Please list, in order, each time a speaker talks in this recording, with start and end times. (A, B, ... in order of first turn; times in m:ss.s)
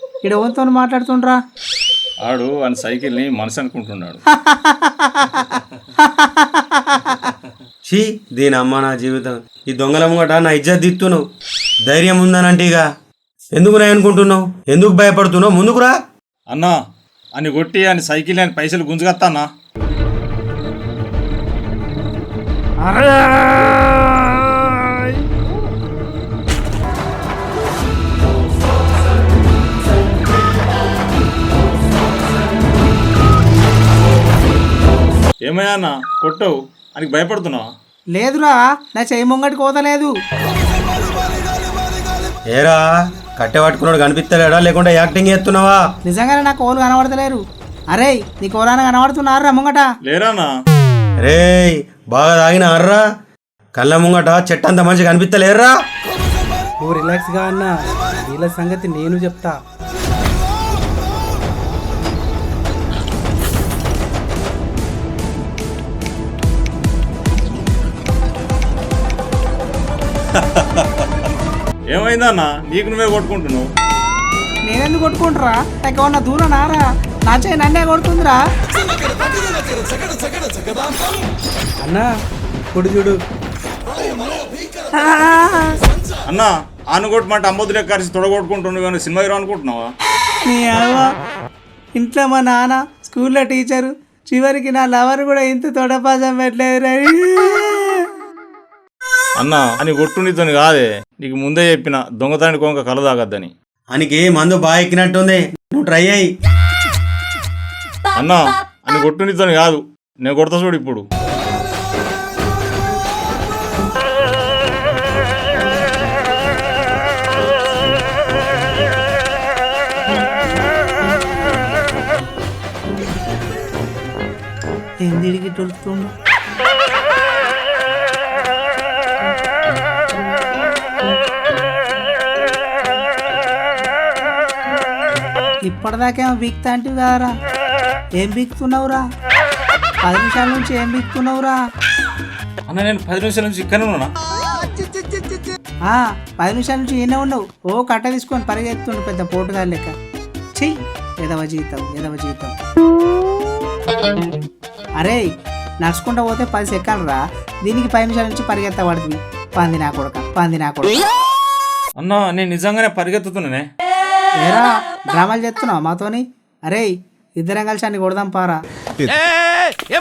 0:00.2-0:01.4 A
0:02.2-0:04.2 B
0:04.3-0:05.4 A
0:06.0-0:07.3 A
0:07.8-0:11.2 C
0:11.9-0:12.8 C
0:13.5-0:16.0 C
0:16.5-0:16.8 B
0:17.4-0:19.5 B
0:22.8-0:25.1 A
0:35.4-0:37.7 B
0:38.1-0:40.1 A
0:42.5-0:45.8 C
0:46.1-0:47.4 A
0:47.9-0:49.9 A
0:50.0-0:50.5 B
0:51.2-0:53.0 C
0:53.8-0:55.7 C
0:56.8-0:57.7 D
0:58.2-0:59.6 D
1:10.6-1:10.8 B
1:11.9-1:13.7 B
1:14.7-1:18.4 A
1:21.8-1:22.1 D
1:22.7-1:23.2 D
1:24.9-1:25.8 A
1:26.3-1:29.9 B
1:30.5-1:31.1 A
1:32.0-1:38.1 A
1:39.4-1:43.5 B
1:43.9-1:46.3 C
1:48.2-1:51.0 B
2:05.0-2:06.1 A
2:15.6-2:17.3 A
2:18.2-2:19.0 A
2:20.0-2:21.6 A
2:22.7-2:24.1 B
2:24.5-2:29.9 A
2:30.6-2:32.6 A
2:35.0-2:35.3 A
2:35.8-2:41.0 A
2:42.0-2:43.7 B
2:44.4-2:48.6 A